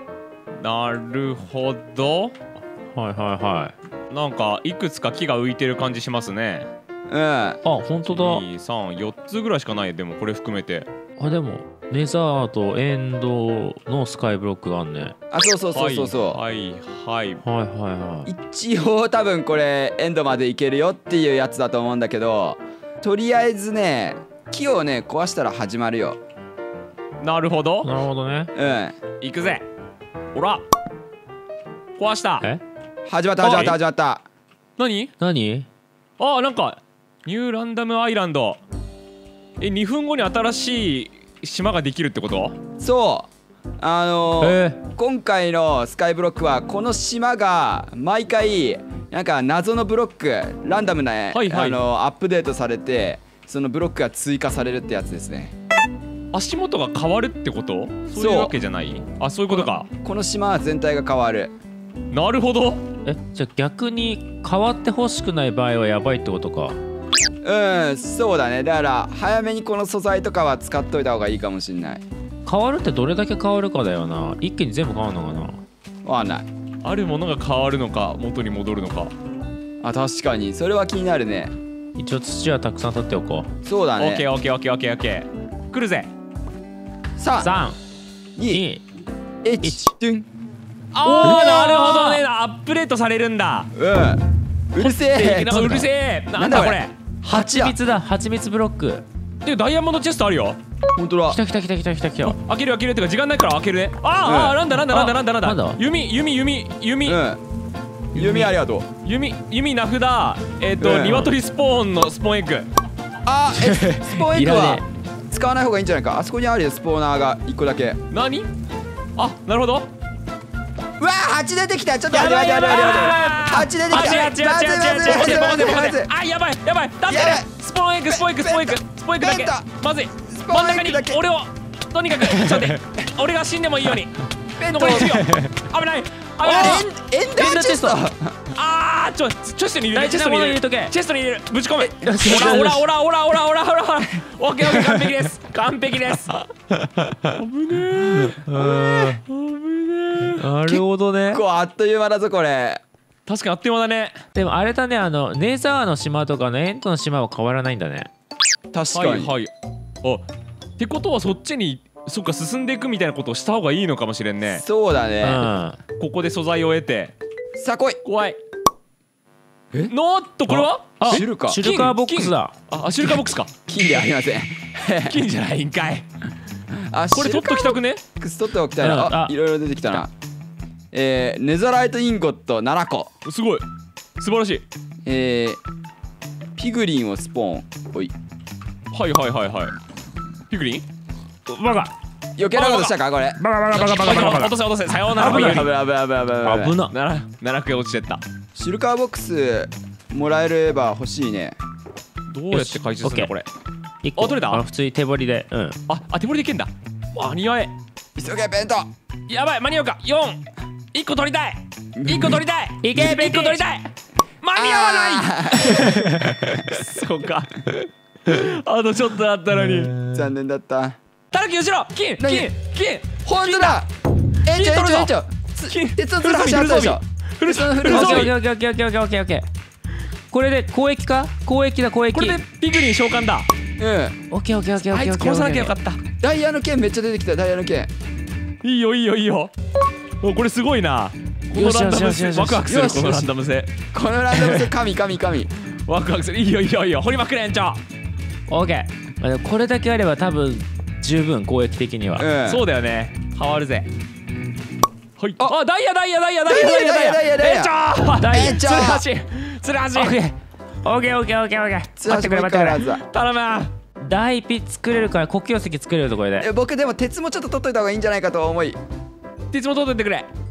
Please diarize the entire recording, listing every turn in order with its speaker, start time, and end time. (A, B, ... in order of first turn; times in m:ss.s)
0:00.6-0:02.4 A
0:03.0-0:03.7 B
0:04.1-0:06.7 A
0:07.1-0:07.6 C
0:07.6-0:08.5 B
0:08.1-0:10.9 A
0:11.2-0:15.2 B
0:15.3-0:16.4 C
0:15.7-0:17.4 A
0:17.4-0:18.3 B
0:18.3-0:26.2 C
0:27.2-0:27.9 A
0:27.8-0:28.5 B
0:28.6-0:29.0 C
0:29.2-0:29.7 A
0:30.3-0:30.6 A
0:32.0-0:32.4 A
0:33.1-0:34.2 C
0:33.4-0:33.8 A
0:34.8-0:35.1 A
0:35.2-0:35.7 B
0:36.2-0:38.6 A
0:39.6-0:42.6 A
0:42.8-0:43.3 C
0:43.8-0:55.5 C
0:44.4-0:44.8 B
0:51.3-0:51.8 A
0:56.3-0:59.9 A
0:58.2-0:58.5 C
0:59.5-1:01.5 C
1:02.1-1:02.8 A
1:03.1-1:06.8 B
1:07.4-1:12.0 C
1:12.4-1:15.6 B
1:16.0-1:16.5 C
1:16.8-1:19.1 A
1:19.8-1:21.5 C
1:22.0-1:23.5 B
1:23.6-1:24.3 C
1:24.0-1:26.1 A
1:27.2-1:27.5 C
1:27.4-1:27.8 B
1:28.4-1:28.6 C
1:28.5-1:28.8 B
1:29.4-1:30.3 C
1:31.0-1:33.7 A
1:31.1-1:32.2 B
1:31.2-1:32.0 C
1:33.8-1:34.2 C
1:34.7-1:35.6 C
1:34.8-1:37.0 A
1:35.5-1:35.9 B
1:36.3-1:37.8 C
1:37.3-1:39.0 B
1:39.4-1:40.6 A
1:41.0-1:41.4 C
1:41.3-1:42.4 B
1:42.2-1:47.2 A
1:44.2-1:44.6 C
1:44.9-1:45.8 B
1:47.1-1:47.4 C
1:48.1-1:48.5 B
1:48.1-1:48.9 C
1:49.0-1:52.7 A
1:50.8-1:51.3 C
1:53.3-1:58.0 C
1:53.5-1:54.8 B
1:58.1-1:58.5 A
1:59.2-1:59.9 A
2:01.0-2:06.1 C
2:02.1-2:16.9 A
2:02.4-2:02.9 B
2:07.1-2:07.5 C
2:08.1-2:09.7 C
2:10.3-2:11.2 C
2:12.3-2:12.7 B
2:14.6-2:15.2 C
2:15.2-2:15.5 B
2:16.4-2:16.8 B
2:16.5-2:18.3 C
2:17.4-2:18.0 B
2:18.6-2:26.4 A
2:19.9-2:20.9 B
2:21.8-2:22.5 C
2:22.0-2:22.8 B
2:26.8-2:27.4 B
2:27.3-2:30.4 A
2:28.0-2:29.2 B
2:30.3-2:31.4 B
2:30.6-2:32.8 C
2:33.3-2:34.2 A
2:34.4-2:38.1 B
2:38.7-2:39.3 C
2:38.9-2:39.5 A
2:40.8-2:44.6 A
2:44.5-2:45.5 C
2:45.2-2:45.8 B
2:46.0-2:47.2 A
2:47.6-2:48.0 C
2:48.0-2:48.4 A
2:49.9-2:53.5 A
2:50.5-2:52.5 B
2:51.1-2:51.6 C
2:53.7-2:55.2 C
2:55.1-2:56.1 A
2:56.9-3:00.1 C
2:57.1-2:58.0 A
2:58.8-2:59.4 B
3:00.9-3:03.1 C
3:03.2-3:03.6 A
3:04.2-3:04.6 A
3:05.0-3:05.6 C
3:06.6-3:08.1 C
3:08.9-3:09.8 A
3:10.5-3:10.8 A
3:11.5-3:11.9 B
3:12.4-3:13.4 C
3:12.5-3:12.9 A
3:13.4-3:14.5 B
3:13.8-3:15.7 A
3:15.2-3:15.7 B
3:15.2-3:16.8 C
3:16.4-3:16.9 B
3:16.9-3:18.2 A
3:18.6-3:21.6 C
3:22.3-3:23.5 A
3:22.5-3:23.3 B
3:24.0-3:25.8 B
3:24.2-3:24.6 A
3:25.9-3:27.7 A
3:28.2-3:28.9 C
3:29.3-3:30.4 A
3:30.9-3:33.9 A
3:32.0-3:32.4 C
3:32.8-3:33.6 B
3:34.4-3:39.9 A
3:34.5-3:36.6 C
3:40.1-3:41.0 C
3:41.3-3:43.8 A
3:42.2-3:42.5 C
3:43.3-3:43.9 C
3:44.4-3:48.4 C
3:44.5-3:45.1 A
3:45.7-3:48.3 A
3:47.8-3:49.5 B
3:50.3-3:52.4 B
3:52.1-3:53.5 A
3:53.8-3:54.2 C
3:54.3-3:55.7 B
3:54.8-3:56.0 A
3:56.2-3:57.9 C
3:58.6-3:59.5 A
4:00.2-4:03.7 A
4:01.5-4:02.7 B
4:02.7-4:03.3 C
4:03.9-4:05.5 C
4:04.3-4:04.7 A
4:05.9-4:07.8 A
4:08.5-4:12.3 B
4:12.2-4:12.7 C
4:12.4-4:13.9 A
4:15.2-4:20.2 A
4:16.5-4:19.0 C
4:18.2-4:18.6 B
4:20.0-4:22.8 B
4:22.0-4:23.0 C
4:23.1-4:23.7 A
4:24.0-4:26.5 B
4:26.4-4:28.8 C
4:29.5-4:30.3 A